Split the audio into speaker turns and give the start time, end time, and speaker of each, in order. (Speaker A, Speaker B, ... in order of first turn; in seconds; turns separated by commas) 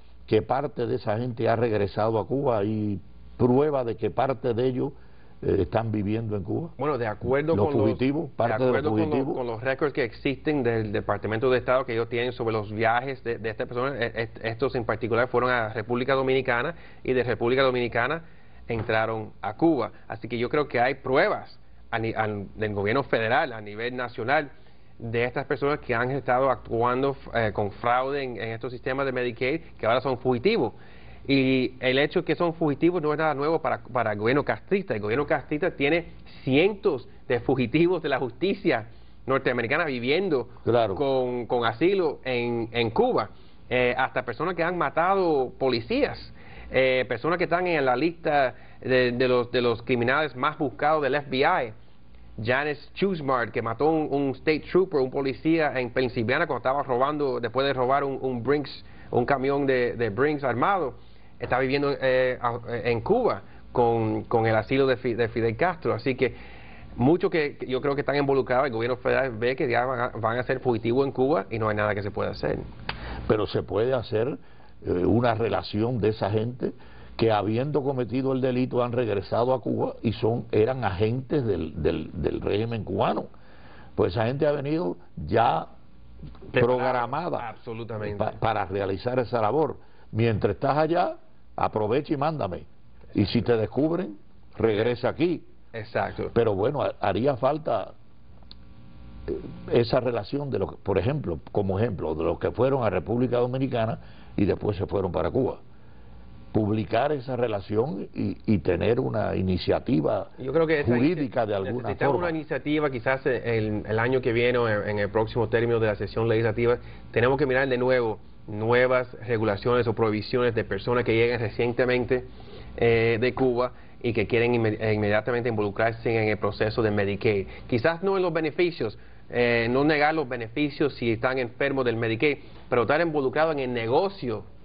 Speaker A: 0.3-6.8, Speaker B: 6.8-51.7, Speaker A: 7.5-9.4, Speaker A: 40.6-41.0, Speaker B: 52.4-66.4, Speaker B: 67.0-72.7, Speaker A: 73.3-83.3, Speaker A: 84.0-85.7, Speaker A: 86.5-87.5, Speaker B: 86.5-88.4, Speaker A: 88.0-95.5, Speaker B: 95.7-96.3, Speaker A: 96.3-97.9, Speaker A: 99.3-105.6, Speaker A: 106.5-112.4, Speaker B: 110.4-134.5